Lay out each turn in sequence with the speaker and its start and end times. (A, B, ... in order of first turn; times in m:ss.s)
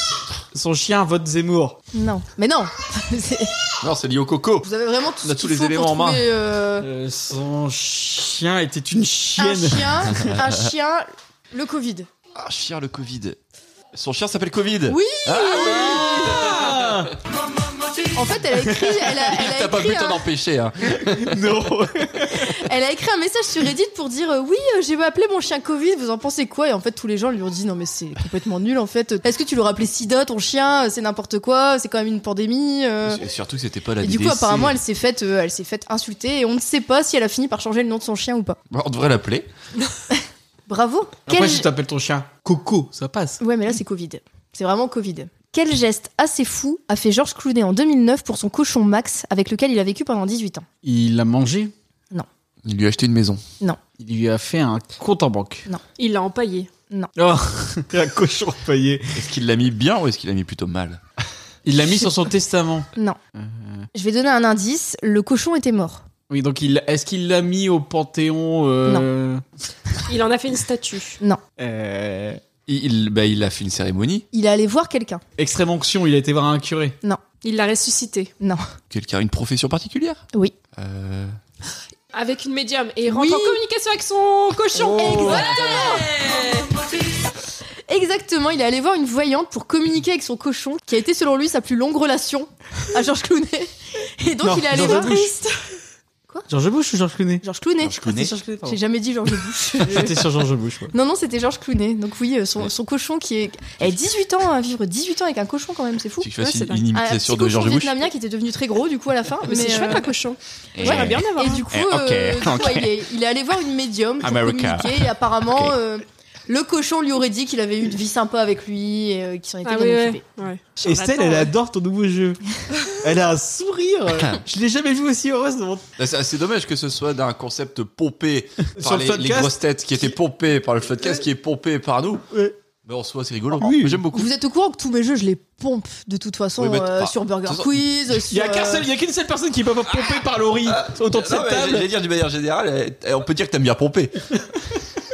0:00.5-0:01.8 A
0:01.9-0:03.5 B
0:03.8-0:04.7 C
0:04.6-0:06.9 B
0:05.2-0:06.3 C
0:06.8-0:10.2 A
0:09.4-0:12.1 B
0:12.3-0:13.4 C
0:13.9-0:16.7 C
0:14.9-0:16.4 B
0:15.5-0:17.1 A
0:18.1-0:20.2 B
0:19.0-0:21.4 C
0:20.9-0:22.5 A
0:22.3-0:33.2 B
0:33.0-0:34.8 C
0:34.0-0:38.6 B
0:38.7-0:39.5 C
0:40.7-0:41.7 B
0:41.3-0:43.4 A
0:43.4-0:50.6 B
0:50.8-0:51.7 A
0:52.6-0:53.4 C
0:54.0-0:55.7 A
0:56.0-0:56.7 D
0:57.2-0:59.2 A
0:59.1-1:01.0 C
1:01.6-1:03.9 A
1:03.9-1:06.0 B
1:06.3-1:09.4 A
1:10.1-1:11.2 D
1:11.6-1:12.4 A
1:12.6-1:14.2 C
1:14.3-1:15.2 B
1:15.4-1:17.0 A
1:17.4-1:18.3 D
1:18.9-1:21.4 C
1:22.1-1:26.9 D
1:23.0-1:23.6 B
1:24.7-1:25.5 A
1:24.9-1:26.0 B
1:27.9-1:35.4 B
1:34.4-1:35.3 A
1:35.0-1:35.3 D
1:36.5-1:37.4 A
1:37.4-1:40.3 B
1:37.8-1:38.3 C
1:38.0-1:38.8 A
1:39.8-1:40.9 A
1:40.9-1:46.3 B
1:46.2-1:48.0 C
1:46.4-1:46.8 D
1:46.9-1:50.1 B
1:49.4-1:51.6 D
1:50.8-1:52.9 C
1:50.8-2:00.2 B
1:54.2-1:55.7 C
1:59.6-2:01.5 D
2:00.8-2:05.8 A
2:06.0-2:12.2 C
2:08.8-2:10.2 A
2:12.8-2:14.3 C
2:13.6-2:14.0 A
2:14.1-2:18.8 B
2:16.6-2:17.8 C
2:18.3-2:21.9 A
2:20.0-2:24.1 C